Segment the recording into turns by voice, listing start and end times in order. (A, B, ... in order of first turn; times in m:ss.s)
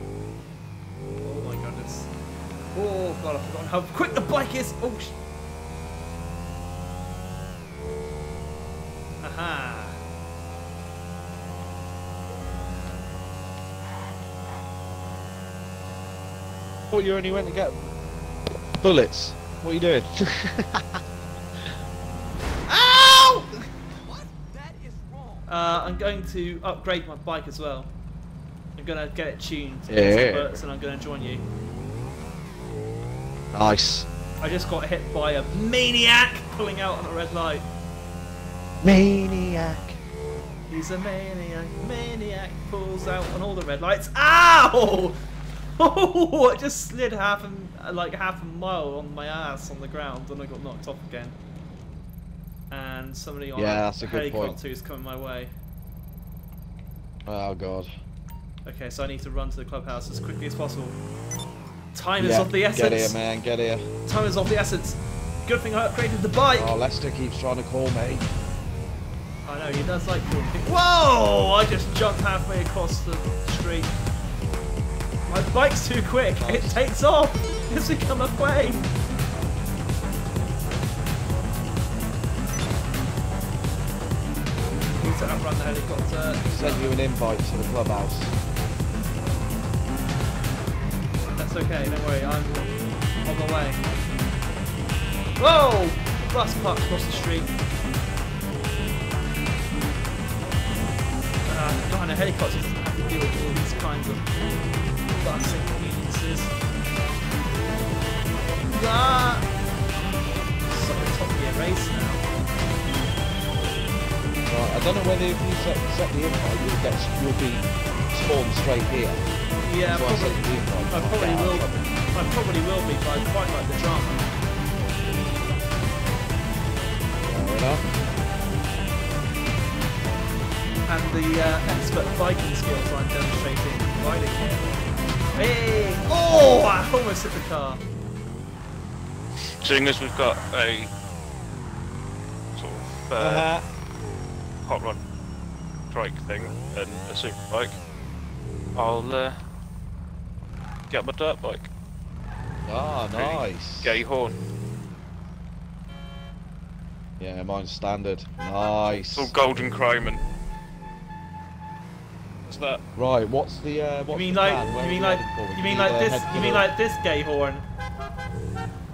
0:01.2-0:02.1 A
0:02.7-0:05.2 A
0:09.2-0:10.0 A
0:16.9-0:17.9 B
0:18.8-0:21.0 B
0:22.7-0:23.6 A
0:25.5-0:27.9 A
0:28.8-0:31.4 A
0:29.9-0:30.6 B
0:33.5-0:34.1 B
0:34.4-0:37.7 A
0:38.8-0:40.0 B
0:40.7-0:45.2 A
0:45.8-0:51.4 A
0:52.7-0:55.5 A
0:53.6-0:54.6 B
0:57.3-0:57.9 B
0:58.7-1:01.0 A
1:01.9-1:03.2 A
1:02.2-1:03.9 B
1:04.1-1:06.7 A
1:06.5-1:08.3 B
1:09.5-1:14.0 A
1:15.3-1:18.9 A
1:16.4-1:16.8 B
1:25.0-1:26.9 A
1:26.5-1:28.3 B
1:31.4-1:33.8 A
1:35.4-1:37.5 A
1:41.5-1:44.3 A
1:45.2-1:46.5 A
1:48.7-1:49.5 A
1:50.7-1:52.2 A
1:54.5-1:59.2 B
1:59.6-2:04.3 A
1:59.8-2:01.9 B
2:07.2-2:07.8 B
2:10.9-2:14.8 A
2:15.4-2:17.8 A
2:19.6-2:20.9 C
2:22.6-2:23.5 C
2:23.2-2:23.7 B
2:24.6-2:25.0 C
2:25.9-2:27.8 C
2:28.8-2:29.4 C
2:30.9-2:31.7 C
2:32.7-2:34.0 B
2:33.2-2:34.4 C
2:37.2-2:39.3 B
2:38.9-2:40.2 C
2:42.5-2:42.8 C
2:43.0-2:46.7 B
2:44.1-2:47.6 A